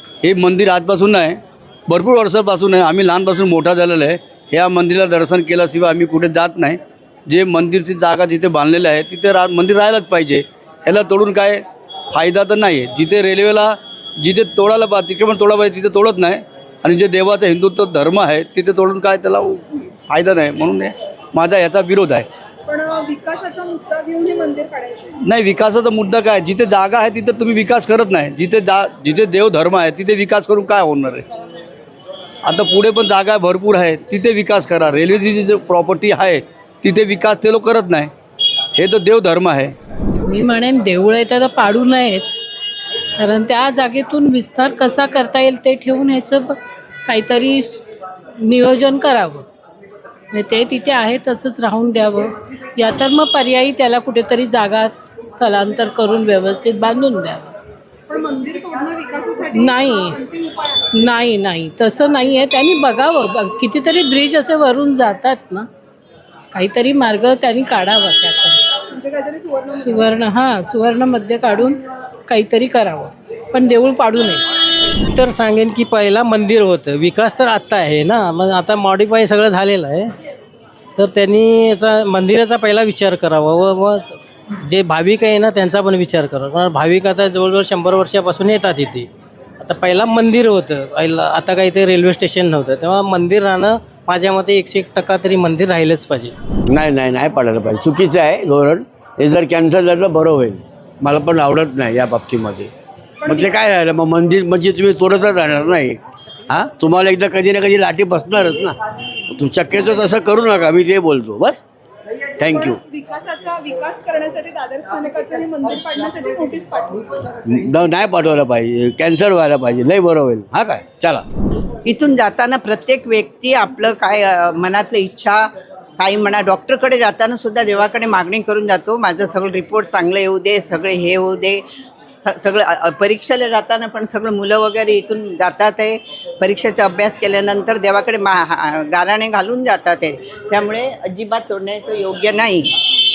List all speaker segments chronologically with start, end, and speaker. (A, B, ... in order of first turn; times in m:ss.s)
0:00.2-0:22.3 A
0:22.7-0:25.1 B
0:25.2-0:31.2 A
0:32.4-0:38.1 A
0:38.8-0:39.7 A
0:40.3-0:42.4 C
0:43.2-0:47.8 C
0:48.4-0:49.4 C
0:50.3-0:57.6 C
0:58.1-1:00.8 B
0:59.5-1:00.2 C
1:01.0-1:05.7 C
1:06.5-1:08.7 C
1:08.9-1:10.1 B
1:09.7-1:14.4 C
1:15.1-1:20.1 D
1:21.0-1:29.1 D
1:29.6-1:36.3 D
1:36.7-1:42.7 E
1:43.2-1:43.5 B
1:43.2-1:51.6 E
1:52.4-1:52.8 E
1:52.5-1:57.2 B
1:57.5-2:01.2 E
2:01.8-2:05.5 F
2:06.0-2:11.6 F
2:12.2-2:22.7 F